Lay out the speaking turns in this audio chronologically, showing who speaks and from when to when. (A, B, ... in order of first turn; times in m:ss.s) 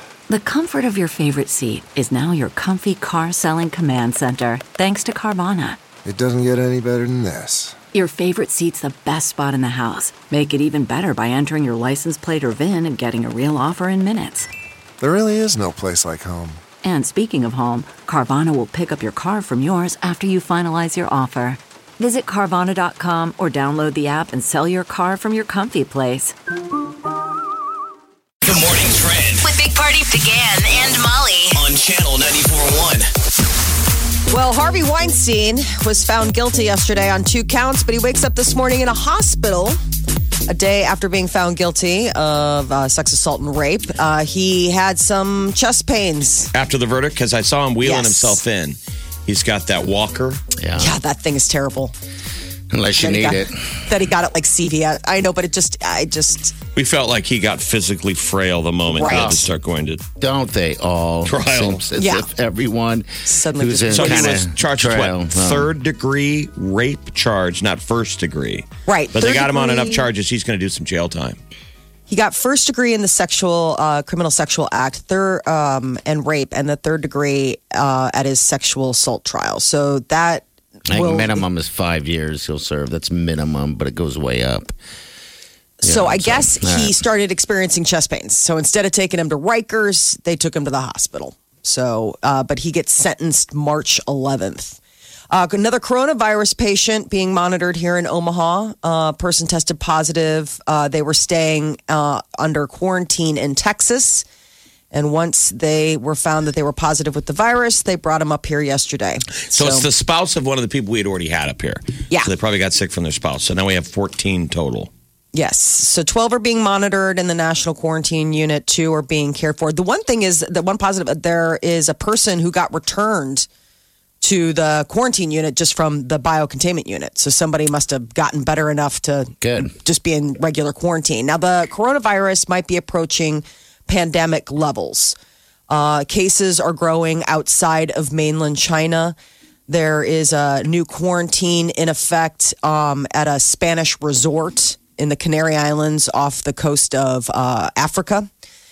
0:00.3-0:05.8 A
0:06.0-0:07.8 B
0:07.9-0:14.5 A
0:15.0-0:16.6 B
0:16.8-0:26.3 A
0:28.4-0:29.4 C
0:29.4-0:31.6 D
0:31.5-0:33.1 C
0:34.3-0:39.8 E
0:40.5-0:46.5 E
0:46.5-0:50.4 F
0:47.8-0:48.4 E
0:50.6-0:51.0 G
0:50.8-0:51.9 E
0:52.7-0:53.8 G
0:52.9-0:56.5 E
0:56.7-1:00.0 F
0:58.9-0:59.3 E
0:59.0-0:59.5 G
1:00.2-1:05.7 G
1:01.2-1:01.8 F
1:02.0-1:02.3 E
1:03.2-1:04.4 E
1:03.9-1:11.4 F
1:08.9-1:10.1 E
1:12.1-1:21.4 E
1:20.9-1:24.7 G
1:25.8-1:34.8 E
1:25.8-1:27.0 G
1:35.3-1:44.2 E
1:44.9-1:49.8 E
1:49.5-1:54.9 F
1:55.3-2:03.5 E
2:04.2-2:15.2 E
2:09.4-2:09.7 G
2:15.7-2:19.1 E
2:19.7-2:28.3 E